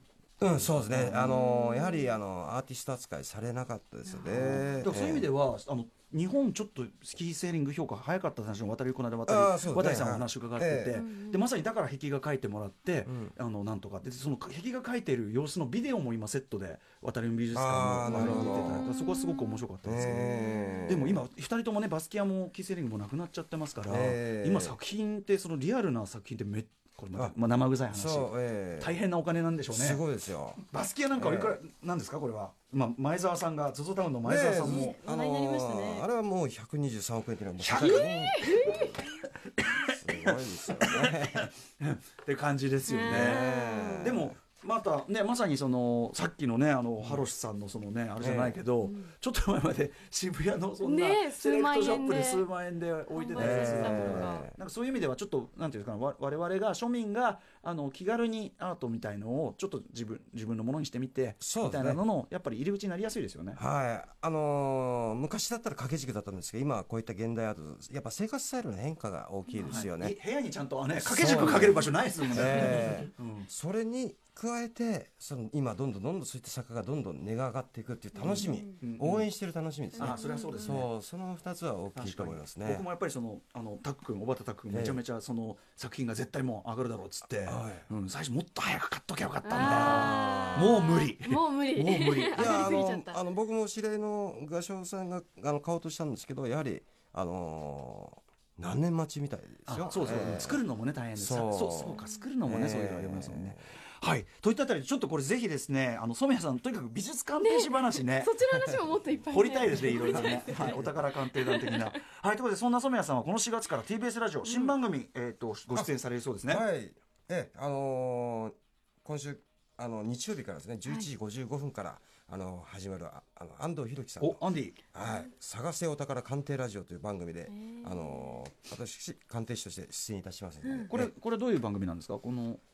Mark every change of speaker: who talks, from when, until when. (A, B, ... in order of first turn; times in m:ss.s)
0:00.4-0:05.3 A
0:00.4-0:01.3 B
0:01.1-0:02.2 C
0:04.1-0:04.7 C
0:04.3-0:20.3 B
0:09.2-0:11.0 A
0:10.9-0:11.5 C
0:13.1-0:13.3 A
0:17.5-0:18.9 A
0:18.2-0:20.8 C
0:19.8-0:21.2 A
0:20.8-0:30.0 B
0:23.9-0:24.8 A
0:27.9-0:29.0 A
0:29.7-0:30.6 A
0:30.6-0:35.0 B
0:31.1-0:31.6 A
0:34.2-0:39.0 A
0:34.6-0:36.1 C
0:37.6-0:38.1 B
0:37.7-0:39.0 C
0:39.4-0:43.5 B
0:39.9-0:41.5 A
0:42.9-0:44.2 C
0:42.9-0:44.4 A
0:44.0-1:03.6 B
0:48.2-0:48.6 A
0:48.8-0:49.1 C
0:50.8-0:52.5 C
0:53.1-0:54.4 C
0:53.3-0:54.6 A
1:01.4-1:02.0 A
1:03.6-1:10.2 A
1:09.6-1:13.5 B
1:10.9-1:22.8 A
1:18.2-1:19.3 B
1:18.3-1:18.8 C
1:20.0-1:20.8 C
1:20.0-1:20.9 B
1:22.0-1:32.5 B
1:24.7-1:25.0 A
1:27.4-1:27.9 A
1:29.4-1:33.2 C
1:29.5-1:30.9 A
1:31.8-1:40.6 A
1:39.7-1:48.3 B
1:41.2-1:43.7 A
1:41.9-1:42.2 C
1:47.4-1:52.0 C
1:48.5-1:48.8 A
1:49.3-1:56.6 B
1:49.8-1:50.9 A
1:54.4-1:54.8 C
1:56.5-2:04.4 A
2:04.2-2:04.8 B
2:04.9-2:11.1 A
2:07.5-2:08.4 C
2:10.6-2:10.9 C
2:10.9-2:12.6 B